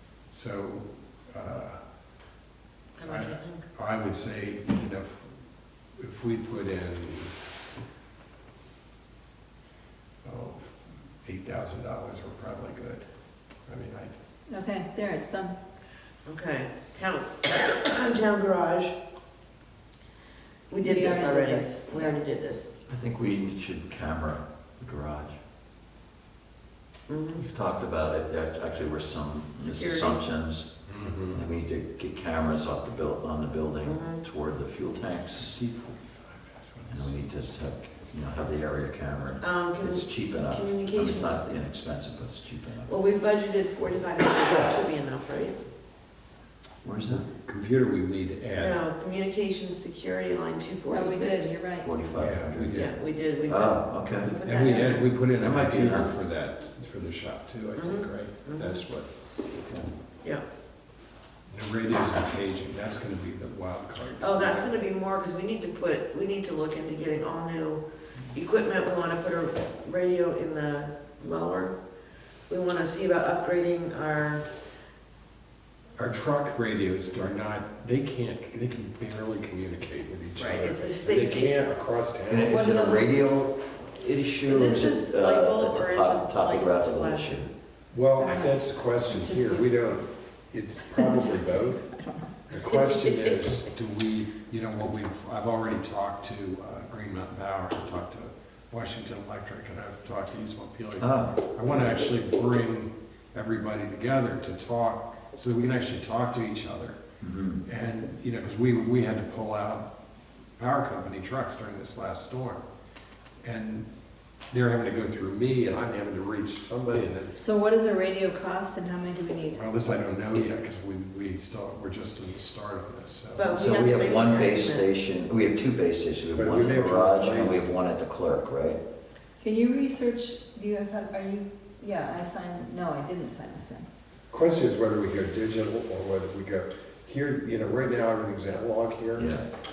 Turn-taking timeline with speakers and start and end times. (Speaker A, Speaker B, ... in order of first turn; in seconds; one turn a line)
Speaker A: 0.3-1.8
Speaker B: 3.0-3.7
Speaker A: 3.0-5.3
Speaker A: 6.0-7.3
Speaker A: 10.2-13.1
Speaker A: 13.7-14.2
Speaker C: 14.5-15.6
Speaker B: 16.3-19.0
Speaker B: 20.7-22.8
Speaker C: 20.8-22.2
Speaker D: 22.9-25.4
Speaker B: 27.1-27.4
Speaker D: 27.4-30.7
Speaker B: 29.6-30.2
Speaker A: 30.9-31.4
Speaker D: 31.3-35.6
Speaker B: 33.8-34.2
Speaker A: 35.4-37.1
Speaker D: 36.9-42.9
Speaker B: 39.4-41.5
Speaker B: 42.9-45.6
Speaker D: 46.8-47.3
Speaker A: 47.4-48.8
Speaker B: 48.5-51.7
Speaker C: 50.9-51.9
Speaker D: 51.7-52.9
Speaker A: 52.1-52.9
Speaker B: 52.8-55.0
Speaker D: 53.5-54.4
Speaker A: 54.4-59.1
Speaker D: 55.3-56.1
Speaker B: 57.8-58.8
Speaker D: 59.6-59.9
Speaker A: 61.5-64.8
Speaker B: 64.2-67.8
Speaker B: 68.3-71.8
Speaker B: 72.5-74.4
Speaker A: 76.0-82.6
Speaker B: 80.4-81.6
Speaker D: 82.3-87.5
Speaker C: 82.4-83.2
Speaker B: 84.5-87.4
Speaker A: 87.9-91.9
Speaker C: 88.2-89.7
Speaker C: 90.9-93.2
Speaker A: 92.5-107.0
Speaker D: 101.0-101.4
Speaker D: 107.2-107.6
Speaker A: 107.7-109.9
Speaker A: 110.6-112.6
Speaker A: 113.4-113.9
Speaker A: 114.5-117.4
Speaker C: 117.2-119.6
Speaker A: 119.5-123.5
Speaker B: 123.3-124.9
Speaker D: 123.6-128.8
Speaker A: 126.3-127.7
Speaker C: 129.4-133.9
Speaker A: 134.3-139.3
Speaker D: 139.2-139.4